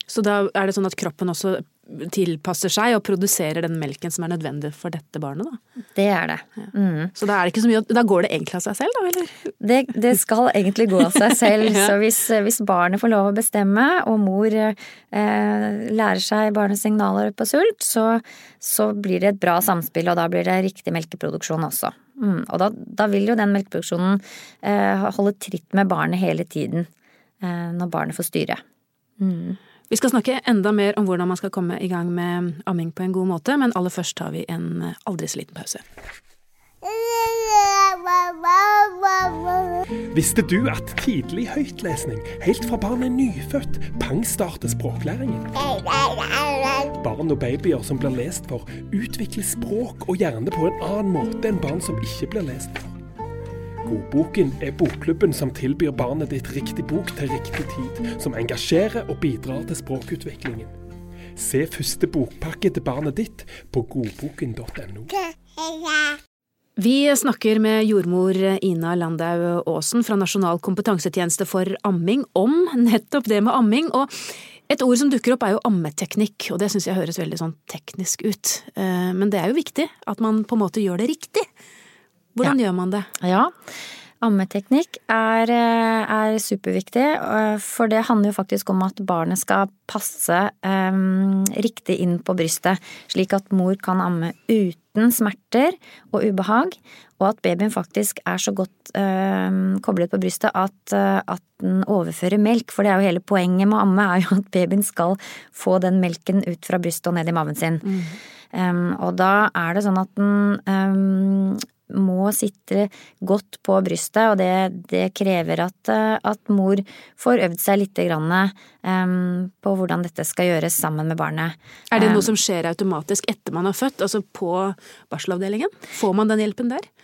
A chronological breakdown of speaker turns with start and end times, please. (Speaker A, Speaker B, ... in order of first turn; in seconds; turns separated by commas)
Speaker A: 0.1-5.6, Speaker B: 5.9-7.1, Speaker A: 7.1-9.3, Speaker B: 9.6-26.9, Speaker B: 27.4-28.6, Speaker B: 29.2-29.6, Speaker A: 29.9-35.8, Speaker C: 40.1-45.5, Speaker C: 47.0-52.9, Speaker C: 53.8-60.7, Speaker C: 61.4-65.1, Speaker A: 66.8-74.1, Speaker A: 74.7-81.4, Speaker A: 82.3-83.1, Speaker B: 83.2-83.5, Speaker B: 84.2-107.9, Speaker A: 107.8-108.2, Speaker B: 108.5-122.3, Speaker A: 121.9-126.8